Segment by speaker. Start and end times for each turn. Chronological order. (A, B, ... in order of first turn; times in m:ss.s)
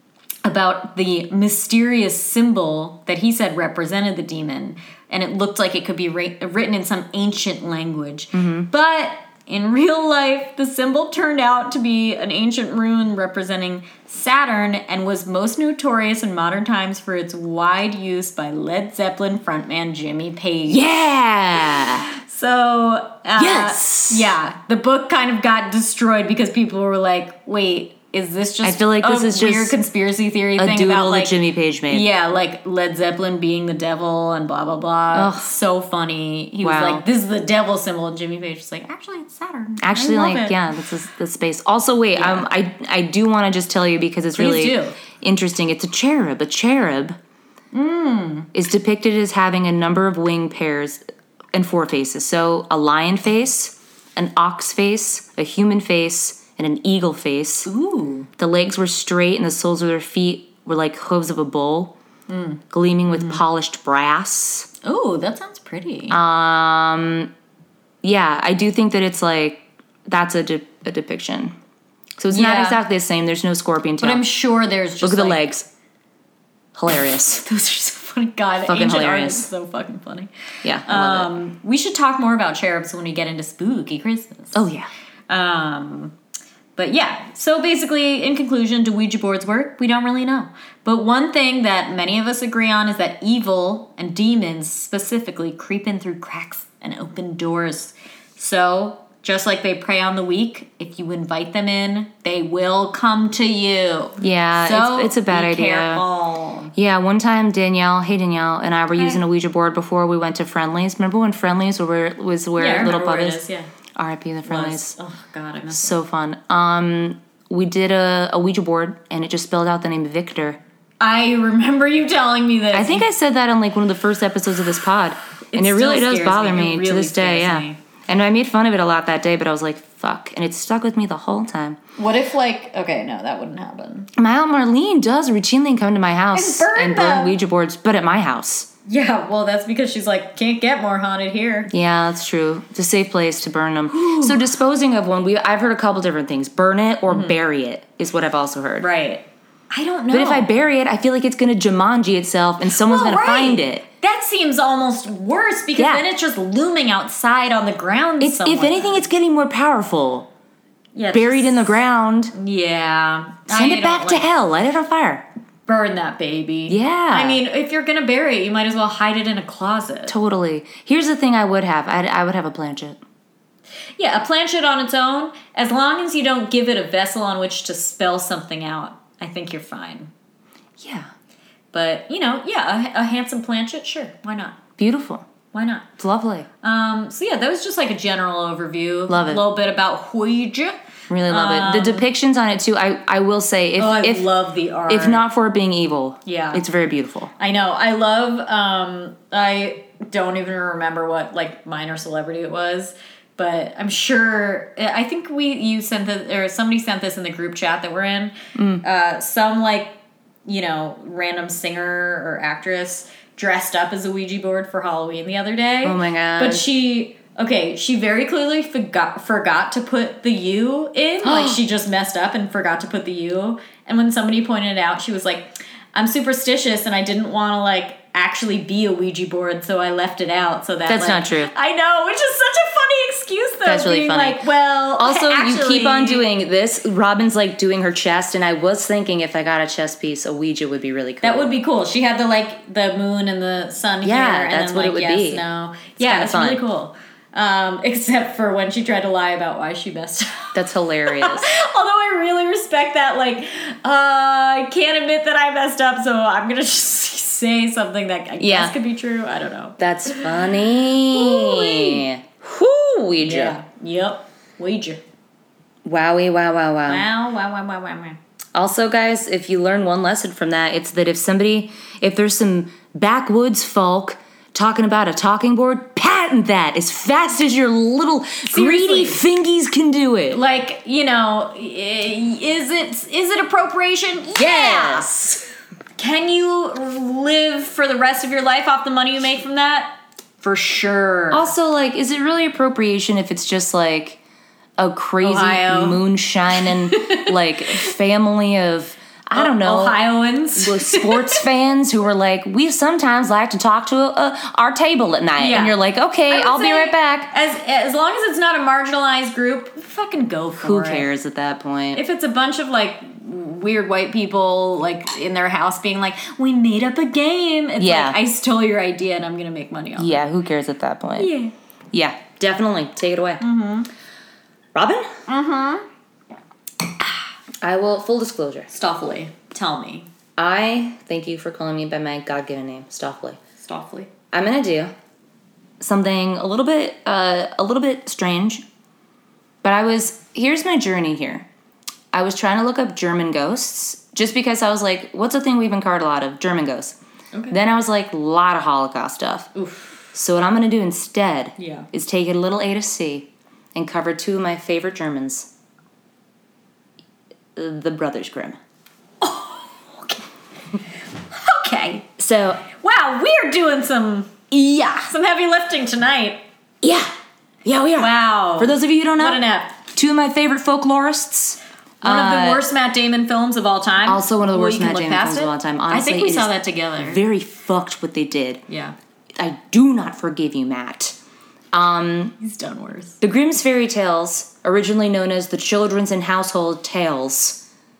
0:00.4-0:20.8 A
0:08.3-0:08.7 B
0:20.7-0:22.1 B
0:21.7-0:31.4 A
0:23.4-0:24.3 B
0:28.6-0:29.8 B
0:30.6-0:32.0 B
0:31.9-0:40.6 A
0:35.1-0:35.5 B
0:36.6-0:37.0 B
0:39.8-0:47.2 B
0:42.2-0:42.5 A
0:44.3-0:45.0 A
0:47.7-0:48.5 A
0:48.5-0:51.0 B
0:51.5-0:57.7 B
0:57.6-0:58.3 A
0:58.4-1:01.9 B
1:02.3-1:03.4 A
1:02.7-1:04.7 B
1:04.8-1:06.2 A
1:06.1-1:07.3 B
1:08.0-1:11.5 B
1:12.2-1:14.2 B
1:12.3-1:12.8 A
1:14.0-1:15.4 A
1:15.0-1:15.7 B
1:16.7-1:17.4 B
1:17.4-1:20.3 A
1:18.7-1:19.5 B
1:20.6-1:21.3 B
1:20.8-1:24.6 A
1:24.5-1:24.9 B
1:25.3-1:26.1 A
1:26.8-1:46.7 A
1:44.2-1:46.0 B
1:46.7-1:53.4 B
1:48.9-1:49.2 A
1:52.6-1:53.7 A
1:54.0-1:54.9 B
1:54.4-1:56.0 A
1:55.7-2:00.6 B
2:01.0-2:03.1 A
2:02.7-2:11.8 B
2:05.5-2:07.8 A
2:12.0-2:14.1 A
2:14.2-2:18.7 B
2:16.3-2:17.4 A
2:18.8-2:21.7 A
2:21.7-2:28.9 B
2:23.9-2:24.4 A
2:27.1-2:27.4 A
2:28.8-2:30.5 A
2:30.1-2:33.8 B
2:32.6-2:39.0 A
2:35.8-2:36.0 B
2:38.2-2:40.3 B
2:40.9-2:41.6 A
2:41.1-2:42.3 B
2:42.3-2:44.3 A
2:43.5-2:45.2 B
2:45.7-2:50.1 A
2:46.7-2:47.4 B
2:50.1-2:53.0 B
2:54.0-3:00.1 A
3:00.8-3:01.1 B
3:01.7-3:04.6 A
3:04.8-3:05.3 B
3:05.5-3:05.9 A
3:06.0-3:06.5 B
3:06.6-3:10.8 A
3:09.1-3:09.4 B
3:11.1-3:14.3 B
3:11.3-3:12.1 A
3:13.8-3:15.2 A
3:14.9-3:17.3 B
3:16.2-3:16.6 A
3:17.4-3:56.2 A
3:28.5-3:28.8 B
3:35.8-3:36.6 B
3:41.2-3:41.6 B
3:50.9-3:51.5 B
3:53.6-3:54.4 B
3:55.0-4:01.5 B
4:01.2-4:10.5 A
4:04.0-4:05.4 B
4:06.0-4:06.6 B
4:10.5-4:11.5 B
4:11.0-4:22.1 A
4:18.4-4:18.7 B
4:19.8-4:23.6 B
4:23.2-4:25.0 A
4:25.8-4:27.1 B
4:26.9-4:28.2 A
4:28.5-4:40.4 B
4:38.5-4:39.2 A
4:40.3-4:45.4 A
4:44.4-4:45.4 B
4:46.0-4:51.5 A
4:51.3-4:54.2 B
4:54.8-5:00.0 B
4:55.2-4:56.0 A
4:56.6-4:57.9 A
4:59.3-5:01.4 A
5:00.6-5:07.3 B
5:05.4-5:05.8 A
5:06.3-5:11.0 A
5:10.6-5:12.0 B
5:11.9-5:20.2 A
5:17.8-5:18.2 B
5:20.0-5:21.3 B
5:21.2-5:21.5 A
5:21.9-5:23.4 B
5:23.4-5:23.9 A
5:24.7-5:25.1 B
5:25.3-5:25.8 A
5:27.6-5:28.7 B
5:28.7-5:30.1 A
5:30.4-5:33.4 B
5:33.6-5:34.1 A
5:34.3-5:34.9 B
5:35.8-5:38.6 B
5:39.6-5:41.4 B
5:42.1-5:47.0 B
5:47.5-5:49.5 B
5:49.5-5:50.1 A
5:50.1-5:55.5 B
5:51.6-5:51.9 A
5:57.6-5:58.6 B
5:59.2-6:00.2 A
6:01.3-6:02.1 A
6:02.2-6:02.6 B
6:02.7-6:04.5 A
6:04.5-6:05.1 B
6:05.0-6:06.4 A
6:06.8-6:07.1 B
6:07.6-6:12.6 B
6:08.0-6:09.8 A
6:12.0-6:17.2 A
6:14.0-6:18.6 B
6:18.7-6:19.0 A
6:19.4-6:21.2 B
6:21.7-6:22.3 B
6:22.4-6:23.2 A
6:23.2-6:27.6 B